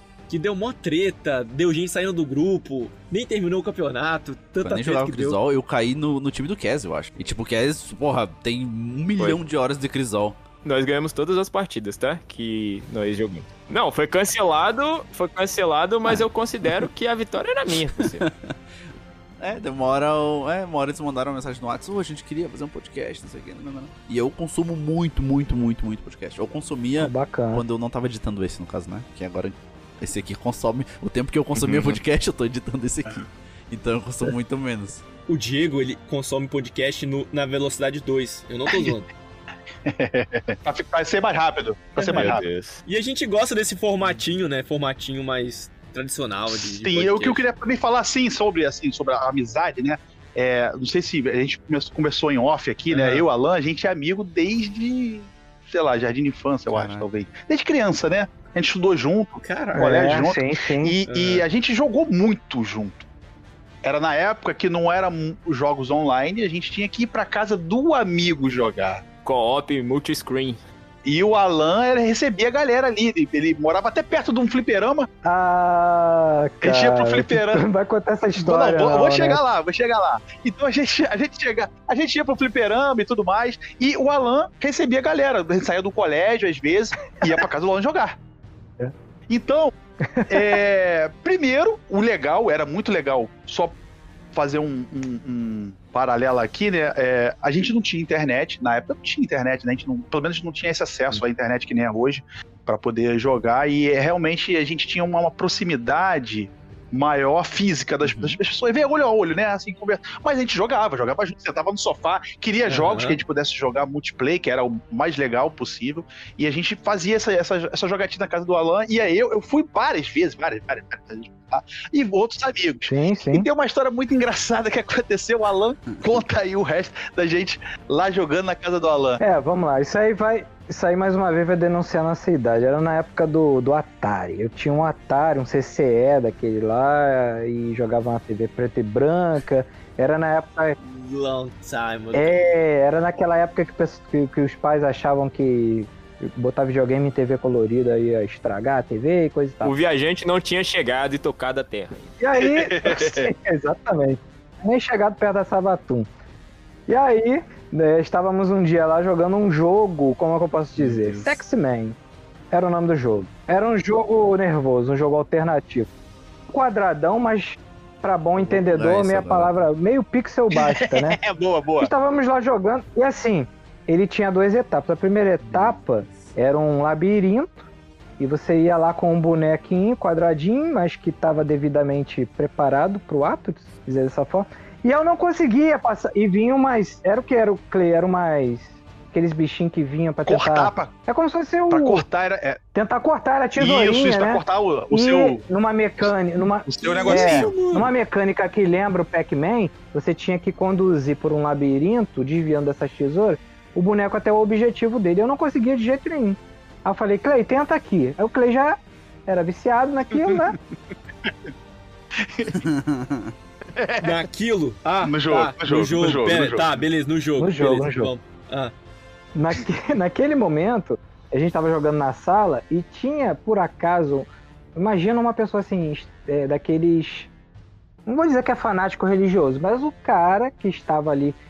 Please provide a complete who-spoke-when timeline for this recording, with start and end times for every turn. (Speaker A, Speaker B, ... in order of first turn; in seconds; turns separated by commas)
Speaker A: 0.3-5.4, Speaker B: 4.6-10.4, Speaker C: 10.6-18.2, Speaker B: 16.1-16.9, Speaker B: 17.7-18.5, Speaker B: 19.4-35.0, Speaker D: 27.0-27.6, Speaker C: 31.6-32.0, Speaker A: 35.3-39.1, Speaker E: 39.9-42.5, Speaker C: 42.0-42.8, Speaker A: 42.9-47.4, Speaker E: 46.5-63.0, Speaker A: 52.9-53.2, Speaker B: 56.7-57.0, Speaker A: 59.4-59.9, Speaker D: 59.8-61.0, Speaker A: 61.1-61.5, Speaker E: 63.8-69.0, Speaker C: 69.2-70.6, Speaker E: 71.0-75.1, Speaker D: 75.2-79.4, Speaker E: 76.6-77.6, Speaker E: 78.4-88.2, Speaker E: 89.3-89.7, Speaker D: 90.1-90.6, Speaker E: 90.3-93.8, Speaker E: 94.3-129.2, Speaker B: 108.0-108.4, Speaker A: 112.7-113.2, Speaker D: 122.9-123.5, Speaker B: 125.9-126.2, Speaker D: 129.2-140.8, Speaker A: 140.8-142.3, Speaker D: 142.1-149.8, Speaker C: 149.6-152.1, Speaker D: 152.2-156.1, Speaker E: 152.5-153.3, Speaker D: 156.9-162.0, Speaker B: 160.8-161.4, Speaker D: 162.5-165.9, Speaker D: 166.5-171.2, Speaker B: 168.4-169.5, Speaker E: 170.6-171.9, Speaker D: 171.8-177.7, Speaker B: 175.6-176.3, Speaker D: 178.2-192.0, Speaker E: 190.3-190.9, Speaker E: 191.7-192.6, Speaker D: 192.7-210.5, Speaker E: 193.6-195.4, Speaker E: 196.7-197.5, Speaker A: 196.8-197.9, Speaker E: 210.2-210.6, Speaker E: 211.2-211.5, Speaker E: 212.2-212.7, Speaker B: 212.5-213.3, Speaker E: 213.8-214.2, Speaker A: 214.0-218.7, Speaker E: 215.0-216.8, Speaker D: 217.4-218.1, Speaker D: 219.3-227.3, Speaker D: 228.1-231.4